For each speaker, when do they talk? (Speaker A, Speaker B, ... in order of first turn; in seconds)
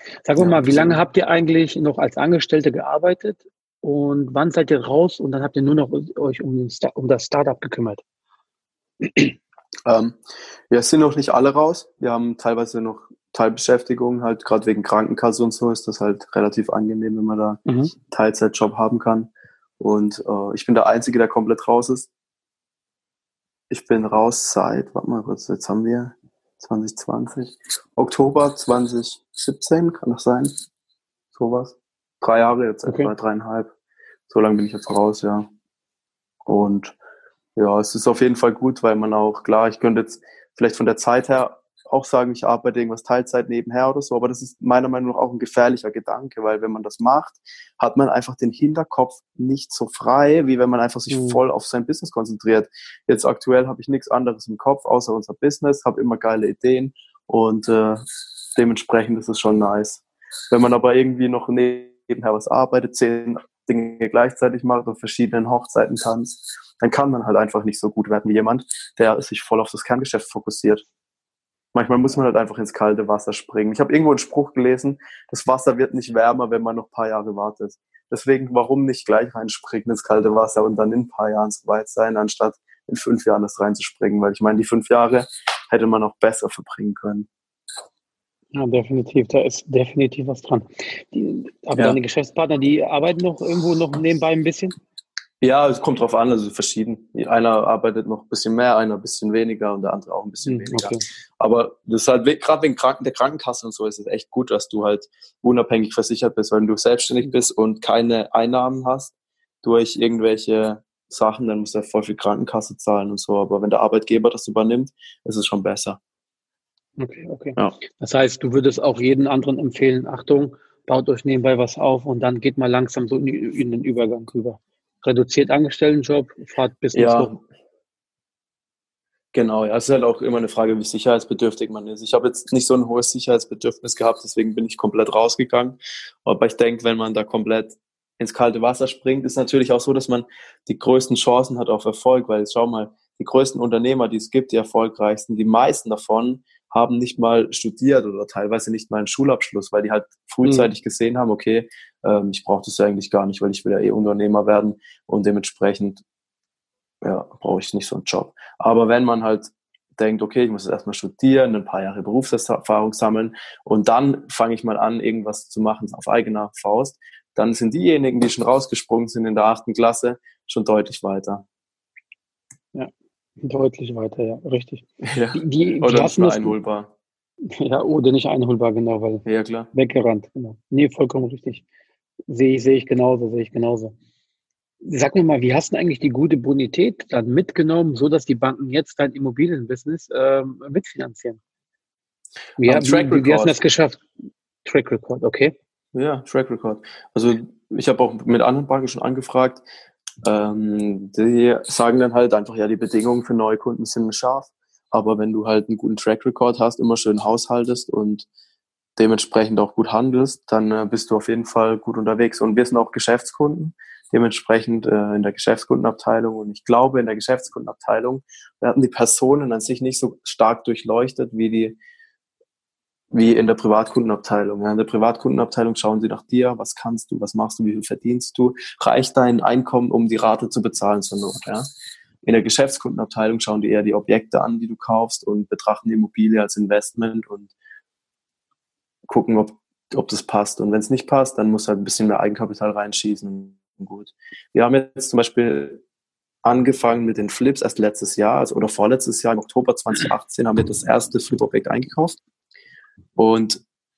Speaker A: 0.2-8.0, 9.0-9.3, 17.7-17.9, 32.9-33.1, 51.1-51.4, 88.5-94.8, 100.5-101.0, 117.0-127.3, 150.4-150.7, 172.7-176.6, 177.6-181.6, 182.3-183.9, 184.8-191.4, 192.6-194.0, 194.7-195.5
Speaker B: 0.4-1.0, 9.9-10.2, 10.7-22.1, 23.7-30.5, 31.3-33.7, 34.3-35.5, 36.5-37.0, 37.6-70.8, 71.7-87.3, 95.4-116.0, 126.9-127.4, 129.3-156.0, 157.0-171.4, 175.0-176.9, 179.3-179.7, 192.6-193.6, 195.9-199.6, 200.2-208.3, 209.0-221.8, 223.1-231.7, 232.2-237.5, 239.1-245.8, 246.4-252.2, 253.2-253.6